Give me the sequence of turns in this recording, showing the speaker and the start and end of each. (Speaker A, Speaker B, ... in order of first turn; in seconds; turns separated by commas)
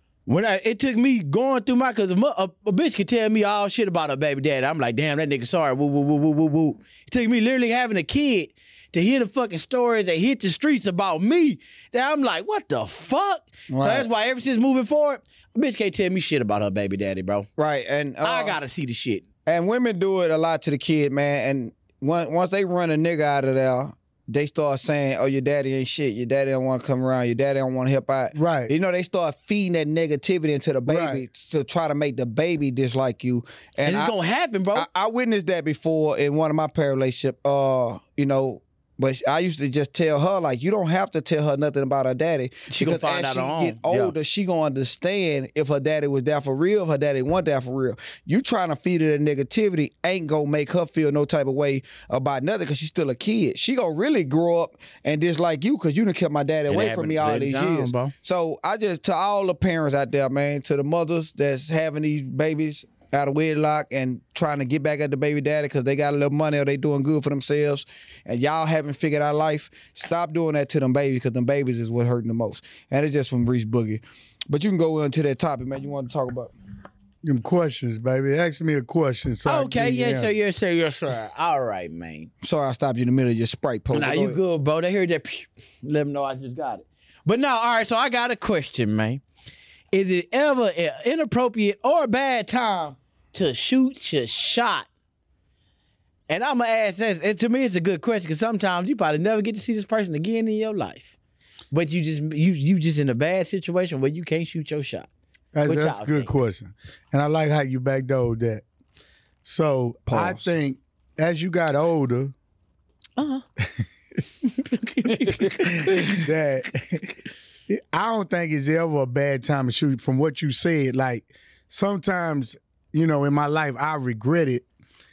Speaker A: 0.3-17.5, Speaker B: 13.7-14.1, Speaker B: 17.6-18.6, Speaker A: 18.2-19.2, Speaker B: 19.5-34.1, Speaker C: 28.4-28.7, Speaker C: 30.9-31.2, Speaker A: 33.8-34.9, Speaker B: 34.8-76.5, Speaker A: 42.7-44.1, Speaker A: 56.7-58.1, Speaker C: 77.2-80.3, Speaker A: 79.5-82.3, Speaker B: 82.4-84.4, Speaker A: 83.9-89.2, Speaker A: 89.9-94.9, Speaker A: 96.3-101.1, Speaker A: 101.7-105.1, Speaker C: 105.5-108.6, Speaker A: 105.7-106.3, Speaker C: 109.4-112.3, Speaker B: 110.1-110.5, Speaker A: 113.2-113.4, Speaker A: 114.4-116.3, Speaker C: 115.8-117.1, Speaker C: 117.7-124.7